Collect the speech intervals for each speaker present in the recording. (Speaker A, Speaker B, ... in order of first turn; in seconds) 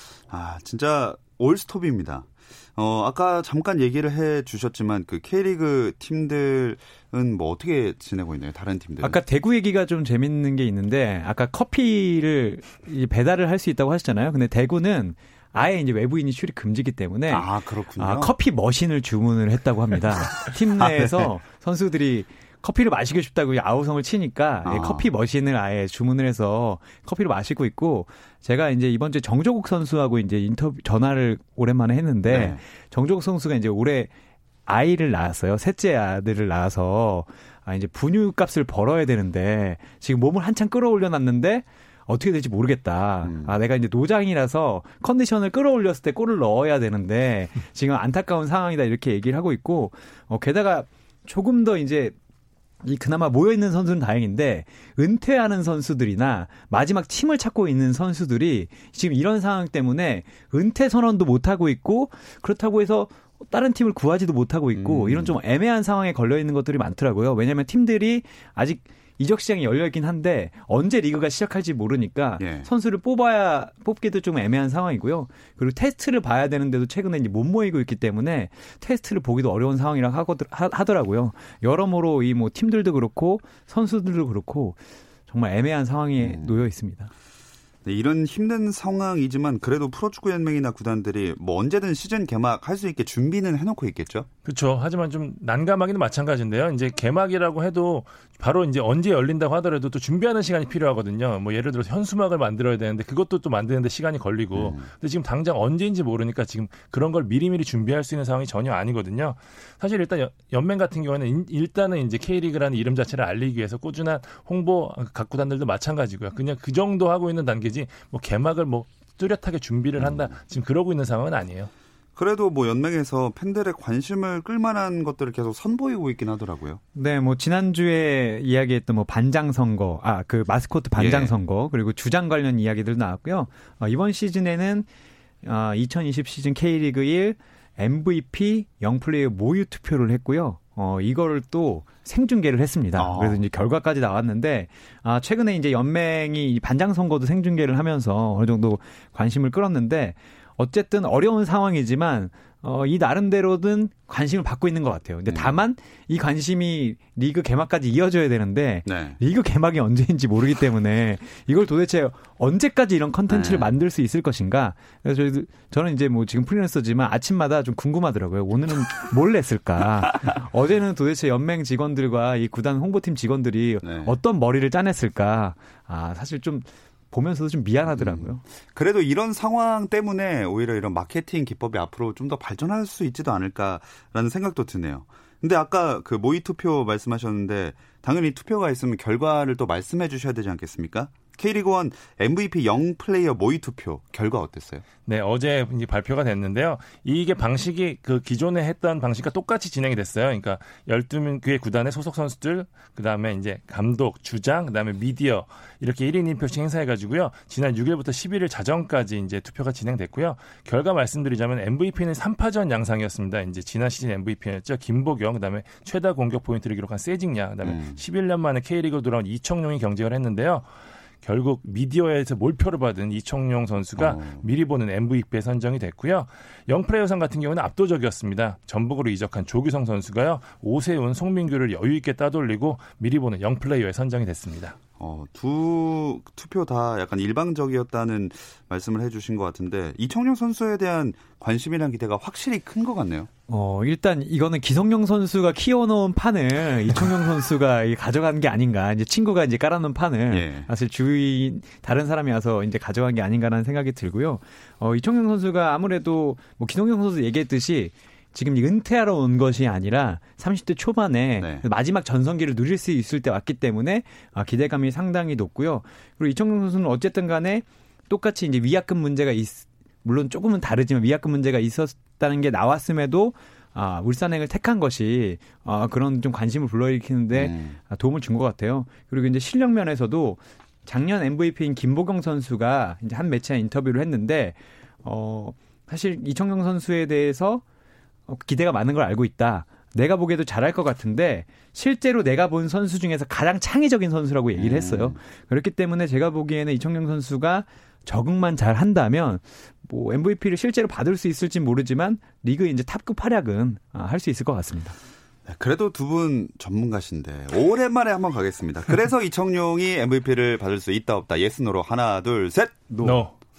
Speaker A: 0.3-9.2, 17.3-18.3, 20.8-21.3, 24.6-25.0, 32.3-32.6, 43.2-43.5, 64.8-65.3, 72.4-72.7, 86.2-86.6, 87.8-94.3, 104.5-104.8, 120.0-120.3, 122.2-126.8, 130.9-131.3, 142.9-143.4, 155.3-155.6, 158.8-159.2, 163.3-163.7, 173.8-174.2, 177.9-194.8, 217.6-218.0, 224.0-224.4, 235.0-243.3, 250.3-250.7, 261.4-261.6, 277.3-277.8, 294.6-295.2, 305.4-313.0
Speaker B: 9.0-34.1, 34.6-52.1, 52.8-87.1, 126.9-134.9, 135.4-178.4, 243.5-287.6, 288.3-304.9, 312.9-313.2
Speaker C: 94.4-121.7, 195.0-220.7, 221.2-234.8, 313.0-313.3